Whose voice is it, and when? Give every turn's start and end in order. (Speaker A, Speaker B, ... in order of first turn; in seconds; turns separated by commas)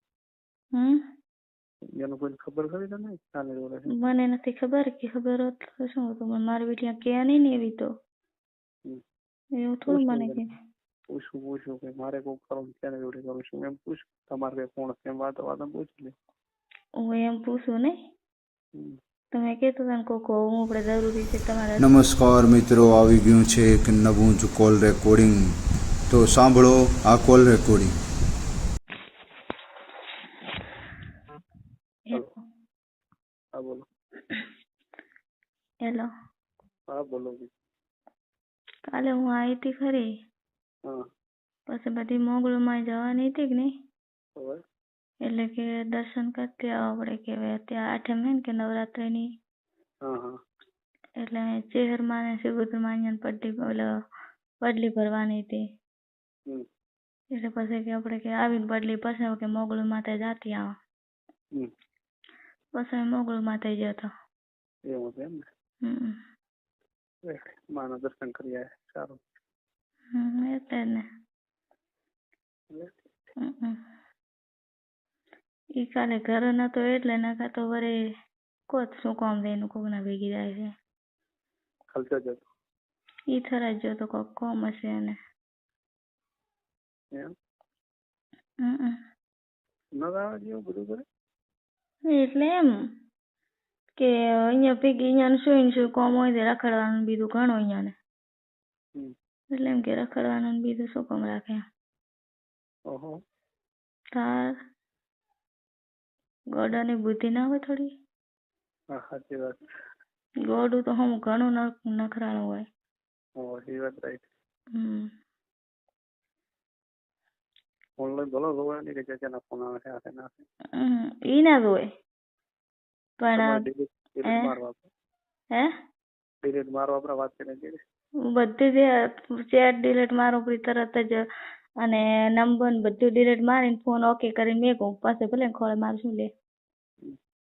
Speaker A: 0.7-1.0, Speaker B: 1.9-3.9, Speaker A: 3.9-7.9, Speaker A: 9.6-10.5, Speaker B: 9.9-10.4, Speaker B: 11.1-16.1, Speaker A: 17.0-18.0, Speaker A: 19.3-21.8, Speaker C: 21.8-25.5, Speaker C: 26.1-27.9, Speaker A: 32.1-32.4, Speaker B: 33.5-33.9, Speaker A: 35.8-36.1, Speaker B: 36.9-37.5, Speaker A: 38.9-40.1, Speaker A: 41.7-43.7, Speaker B: 44.4-44.6, Speaker A: 45.2-49.3, Speaker B: 50.0-50.4, Speaker A: 51.2-53.9, Speaker A: 54.6-55.6, Speaker A: 57.3-60.8, Speaker A: 62.8-64.1, Speaker B: 64.9-65.5, Speaker A: 65.8-66.2, Speaker B: 67.2-69.2, Speaker A: 70.1-71.0, Speaker B: 72.7-73.0, Speaker A: 73.4-73.8, Speaker A: 75.8-78.0, Speaker A: 78.7-80.7, Speaker B: 81.9-82.5, Speaker A: 83.3-85.2, Speaker A: 88.6-89.0, Speaker B: 90.0-91.0, Speaker A: 92.1-92.7, Speaker A: 94.0-98.0, Speaker A: 99.5-101.6, Speaker B: 102.9-103.2, Speaker A: 104.1-104.6, Speaker A: 106.5-107.9, Speaker B: 108.9-109.6, Speaker A: 110.5-112.7, Speaker B: 113.4-114.2, Speaker A: 114.8-115.1, Speaker B: 118.0-120.5, Speaker A: 120.8-121.8, Speaker A: 123.2-123.6, Speaker B: 123.4-124.9, Speaker B: 126.4-127.8, Speaker A: 128.3-128.9, Speaker A: 129.5-131.2, Speaker A: 131.8-136.3